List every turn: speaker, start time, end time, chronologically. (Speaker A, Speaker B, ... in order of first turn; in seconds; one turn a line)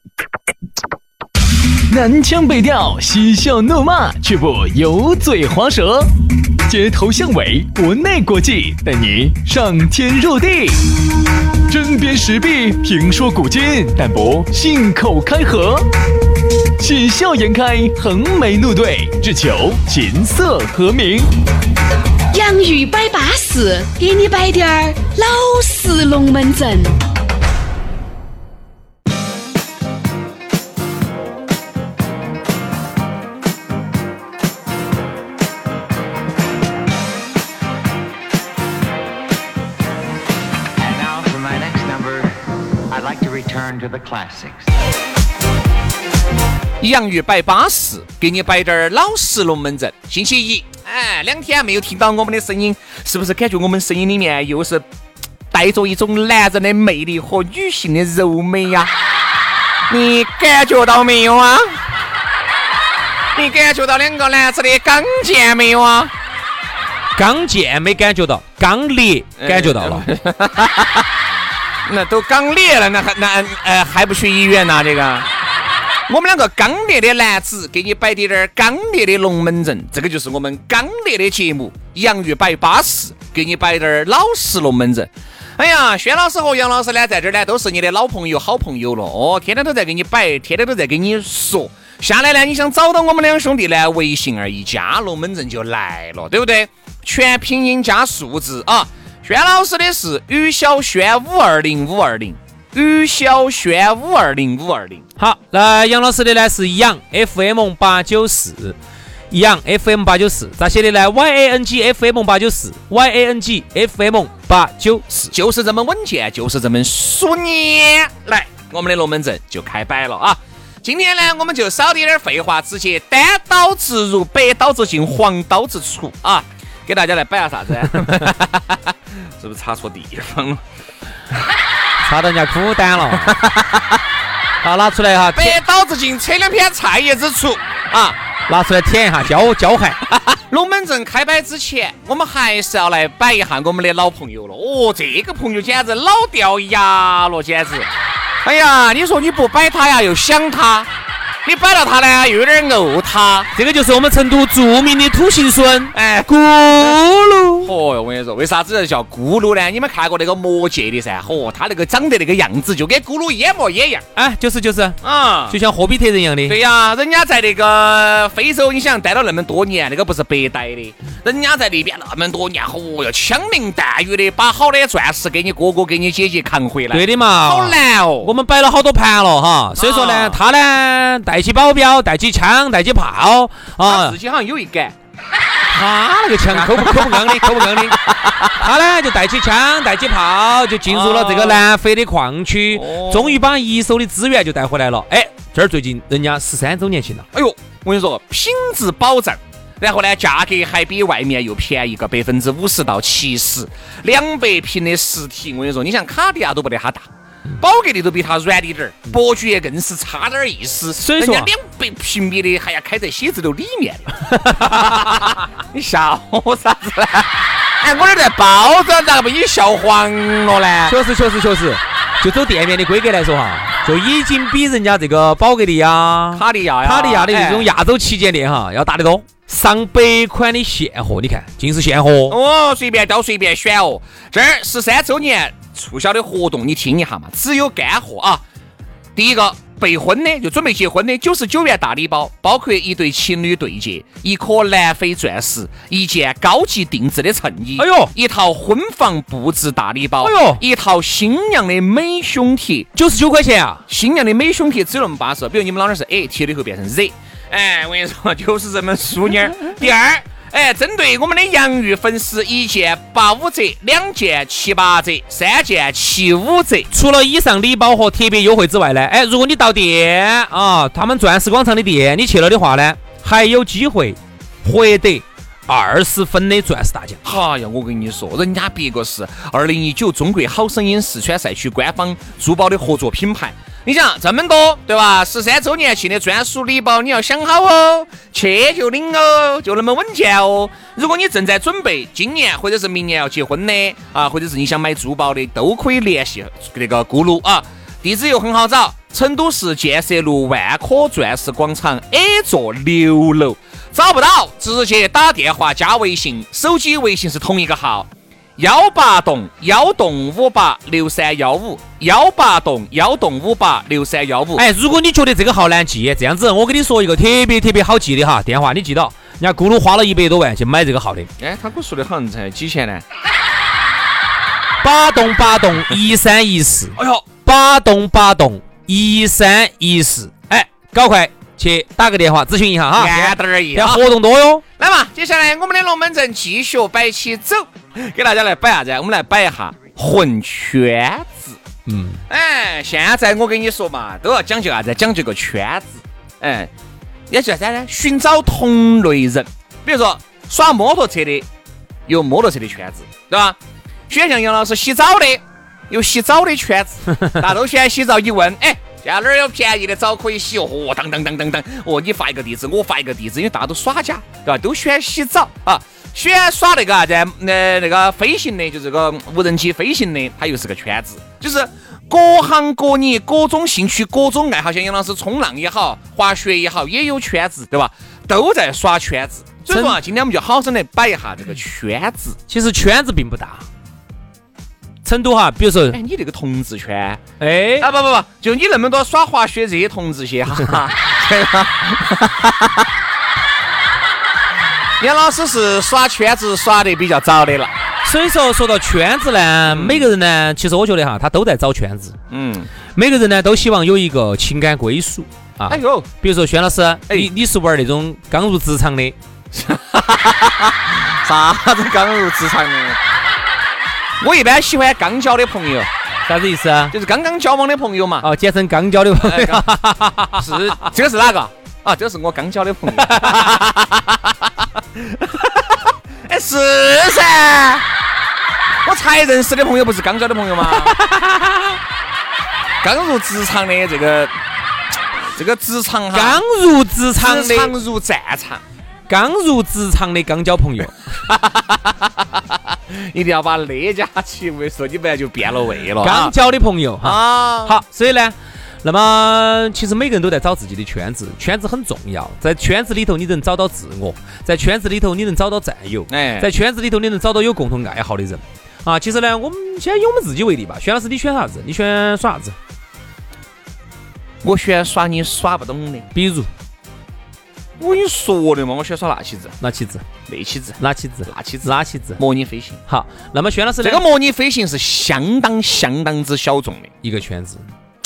Speaker A: 1.9-6.1
Speaker A: 6.7-10.8
Speaker A: 11.7-15.9
Speaker A: 16.8-21.3
Speaker B: 22.3-27.0
Speaker C: 40.8-42.4
Speaker C: 42.9-44.7
Speaker D: 46.8-54.9
Speaker D: 55.5-58.9
Speaker D: 59.9-61.8
Speaker D: 63.4-66.1
Speaker E: 67.2-70.0
Speaker D: 69.4-71.1
Speaker D: 71.9-75.3
Speaker D: 76.1-105.0
Speaker E: 105.2-108.8
Speaker E: 109.3-115.3
Speaker D: 115.2-130.6
Speaker E: 132.1-133.4
Speaker D: 133.2-134.0
Speaker E: 134.6-135.6
Speaker D: 135.3-138.2
Speaker E: 138.5-140.0
Speaker D: 140.1-147.9
Speaker D: 148.4-150.9
Speaker D: 151.4-153.5
Speaker E: 153.6-157.7
Speaker D: 155.9-157.0
Speaker D: 157.6-164.1
Speaker E: 164.2-166.6
Speaker D: 165.0-165.6
Speaker D: 166.5-178.3
Speaker E: 176.9-184.2
Speaker D: 179.8-180.4
Speaker D: 183.8-184.9
Speaker E: 185.7-197.3
Speaker D: 186.5-188.5
Speaker D: 190.9-191.6
Speaker D: 192.7-193.4
Speaker D: 197.3-207.1
Speaker D: 207.6-221.0
Speaker E: 211.0-211.5
Speaker E: 214.3-215.0
Speaker E: 220.9-232.3
Speaker D: 226.3-227.7
Speaker D: 232.3-238.4
Speaker D: 239.2-252.9
Speaker E: 247.8-248.1
Speaker E: 250.2-250.6
Speaker E: 253.0-253.8
Speaker D: 253.9-266.9
Speaker E: 266.9-277.2
Speaker D: 277.2-314.6
Speaker E: 314.6-321.3
Speaker D: 321.4-323.0
Speaker E: 324.8-334.6
Speaker D: 327.0-327.2
Speaker D: 332.9-334.1
Speaker D: 334.8-341.6
Speaker E: 341.9-342.2
Speaker D: 342.3-346.7
Speaker D: 347.3-351.5
Speaker D: 352.1-353.6
Speaker D: 354.1-382.4
Speaker E: 379.7-380.0
Speaker E: 382.5-383.6
Speaker E: 385.1-386.0
Speaker D: 385.9-387.2
Speaker E: 387.4-387.9
Speaker D: 387.8-392.9
Speaker D: 395.0-397.7
Speaker E: 398.0-402.2
Speaker D: 399.7-400.1
Speaker D: 402.3-402.7
Speaker E: 402.9-409.2
Speaker D: 405.7-406.1
Speaker D: 409.5-413.0
Speaker D: 414.2-415.9
Speaker E: 416.3-416.9
Speaker D: 416.9-418.3
Speaker E: 418.2-420.8
Speaker D: 419.2-419.8
Speaker D: 420.4-427.9
Speaker E: 423.0-423.6
Speaker D: 428.9-431.8
Speaker E: 430.6-431.1
Speaker D: 432.8-434.3
Speaker D: 435.4-436.4
Speaker E: 436.1-437.8
Speaker D: 437.2-438.6
Speaker E: 439.1-441.0
Speaker D: 441.2-446.4
Speaker E: 446.0-462.6
Speaker D: 447.0-447.8
Speaker D: 456.1-456.5
Speaker D: 464.4-466.1
Speaker E: 466.1-466.5
Speaker D: 467.8-469.6
Speaker E: 469.6-470.1
Speaker D: 470.3-472.8
Speaker E: 470.8-472.2
Speaker E: 472.9-474.0
Speaker D: 473.8-476.9
Speaker E: 477.0-477.7